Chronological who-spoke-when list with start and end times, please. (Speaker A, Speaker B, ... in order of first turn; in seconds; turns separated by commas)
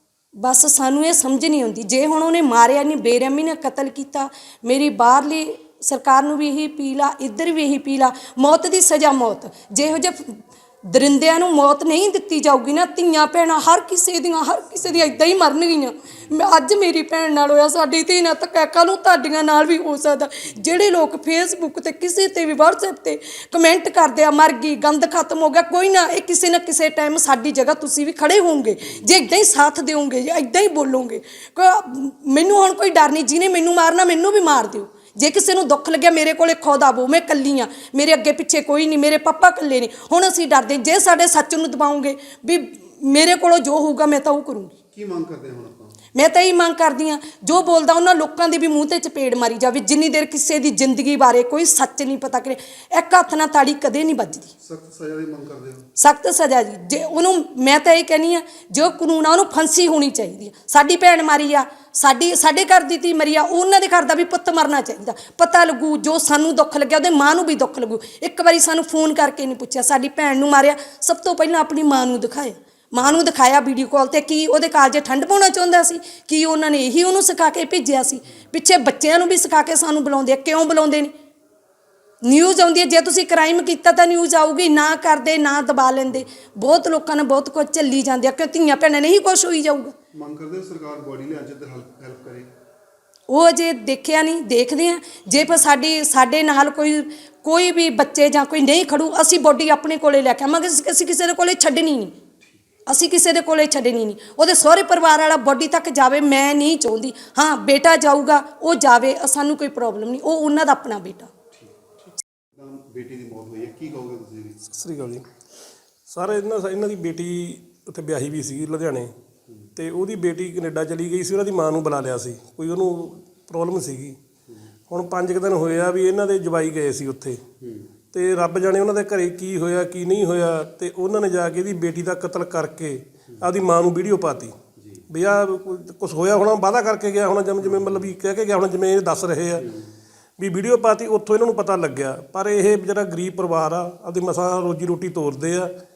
Speaker A: 0.4-44.7, Speaker B: 44.9-46.0, Speaker A: 46.1-54.5, Speaker B: 54.6-55.9, Speaker A: 56.0-81.1, Speaker A: 82.2-89.9, Speaker B: 90.1-92.5, Speaker A: 93.3-102.2, Speaker A: 102.9-111.3, Speaker B: 111.5-114.7, Speaker C: 114.7-115.2, Speaker C: 116.1-119.1, Speaker C: 119.8-124.2, Speaker C: 124.9-127.4, Speaker B: 127.6-127.9, Speaker C: 128.1-134.6, Speaker B: 134.8-135.0, Speaker C: 135.1-139.7, Speaker B: 137.6-138.1, Speaker B: 139.6-139.9, Speaker C: 140.4-145.7